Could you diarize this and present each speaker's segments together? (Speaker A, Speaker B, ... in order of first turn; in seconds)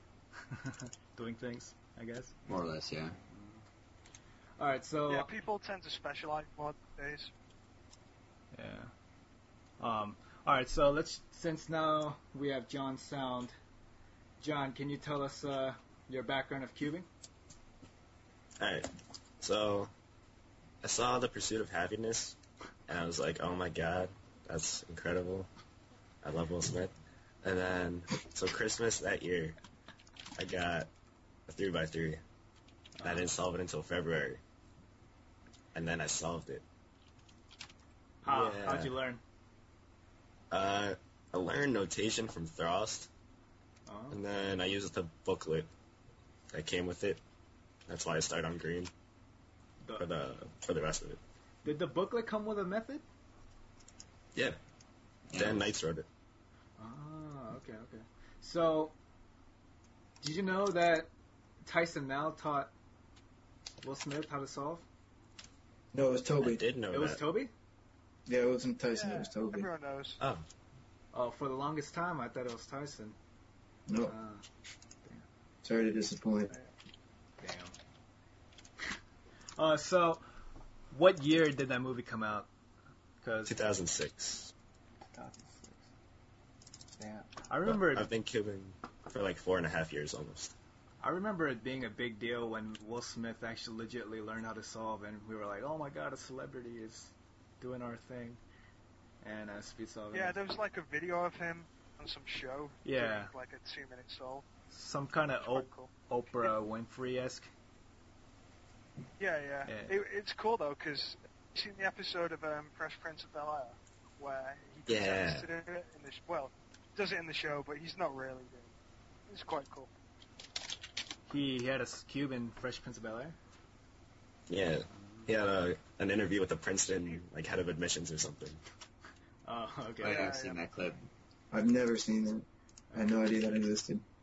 Speaker A: 0.4-2.4, 3.3-3.6, 4.6-5.3, 8.5-8.9, 9.8-13.5, 14.4-17.1, 33.0-33.3, 38.2-39.2, 43.9-44.2, 51.6-53.0, 56.8-58.9, 60.2-61.1, 61.6-62.7, 63.8-64.8, 66.9-67.5, 71.1-73.2, 74.0-74.4, 77.4-77.8, 79.6-80.2, 80.9-82.5, 83.2-83.5, 85.1-85.8, 87.0-88.1, 91.0-98.4, 99.2-100.4, 102.8-103.3, 104.7-107.5, 109.7-110.0, 121.3-123.3, 125.0-125.3, 129.4-130.3, 132.9-133.3
Speaker B: 2.5-3.2, 55.3-55.7, 130.0-131.0
Speaker C: 5.1-7.3, 68.9-70.2, 100.1-104.5, 105.4-105.9, 109.2-118.7, 119.3-119.9, 130.0-130.6
Speaker D: 18.6-18.9, 19.4-19.9, 20.8-22.4, 22.9-25.5, 26.2-26.9, 27.4-29.6, 30.4-30.9, 31.5-32.2, 33.0-34.4, 35.7-36.6, 38.2-38.9, 40.5-43.1, 44.1-45.7, 46.5-47.2, 47.9-48.9, 50.0-51.2, 55.3-56.1, 66.4-67.2, 70.2-70.4, 83.5-84.5, 87.6-90.5, 114.9-115.5, 124.5-128.6
Speaker E: 65.9-66.6, 68.2-69.7, 73.9-74.1, 75.6-76.5, 131.5-134.0